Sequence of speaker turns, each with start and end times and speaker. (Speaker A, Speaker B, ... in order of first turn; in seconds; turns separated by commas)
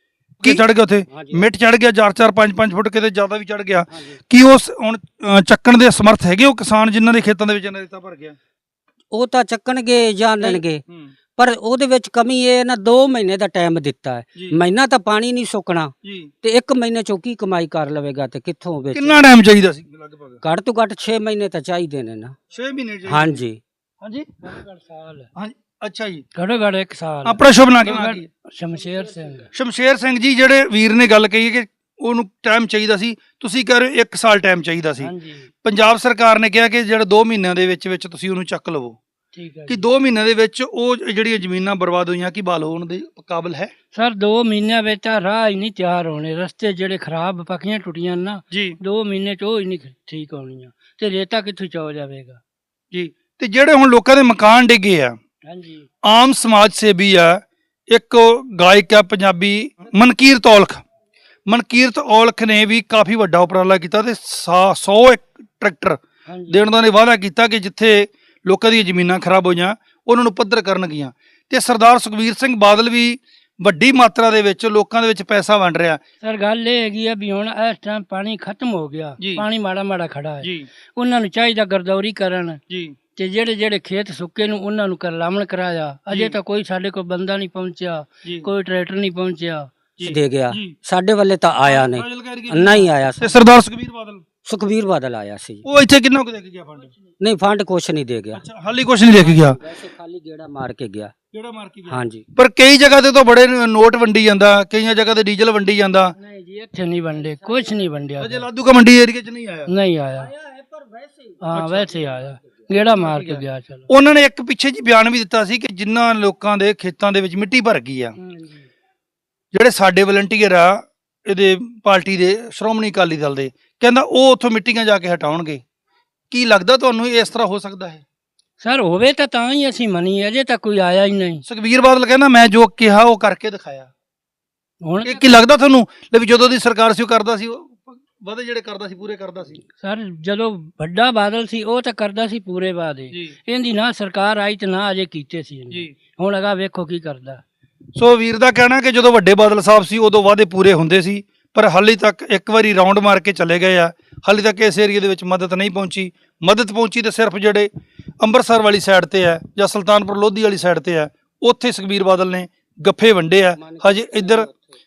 Speaker A: 0.4-8.4, Speaker B: 0.4-1.4, Speaker B: 3.9-4.2, Speaker B: 9.1-10.8, Speaker A: 10.4-11.1, Speaker B: 11.4-19.2, Speaker A: 16.0-16.3, Speaker A: 18.9-20.4, Speaker B: 20.4-22.4, Speaker A: 22.5-23.4, Speaker B: 23.1-23.6, Speaker A: 24.0-24.3, Speaker C: 24.4-25.3, Speaker A: 25.3-26.2, Speaker C: 26.4-29.5, Speaker A: 27.2-28.3, Speaker A: 29.5-35.1, Speaker C: 35.0-35.5, Speaker A: 35.6-39.0, Speaker C: 39.3-39.8, Speaker A: 39.7-43.7, Speaker C: 43.9-52.4, Speaker A: 48.5-48.8, Speaker A: 52.9-55.2, Speaker C: 55.5-55.9, Speaker A: 56.0-60.8, Speaker A: 61.5-76.0, Speaker C: 66.3-66.7, Speaker C: 76.2-82.6, Speaker A: 79.2-79.4, Speaker A: 80.4-80.7, Speaker A: 82.7-83.0, Speaker C: 83.2-89.7, Speaker A: 86.1-86.3, Speaker A: 90.0-90.8, Speaker B: 90.0-93.4, Speaker A: 91.6-94.2, Speaker B: 94.4-95.6, Speaker A: 95.6-96.9, Speaker B: 97.2-98.4, Speaker A: 98.3-99.6, Speaker B: 99.1-101.1, Speaker A: 101.3-106.1, Speaker B: 101.9-102.2, Speaker C: 106.2-108.4, Speaker A: 108.2-109.7, Speaker C: 109.7-110.3, Speaker B: 110.3-111.4, Speaker C: 111.4-113.9, Speaker A: 111.5-112.2, Speaker A: 113.0-118.2, Speaker C: 118.2-118.6, Speaker A: 119.5-125.6, Speaker A: 126.3-128.0, Speaker C: 128.6-131.4, Speaker A: 131.4-133.9, Speaker C: 134.8-135.4, Speaker A: 135.0-139.6, Speaker C: 139.8-147.4, Speaker A: 147.9-157.7, Speaker A: 158.2-164.5, Speaker B: 163.6-164.6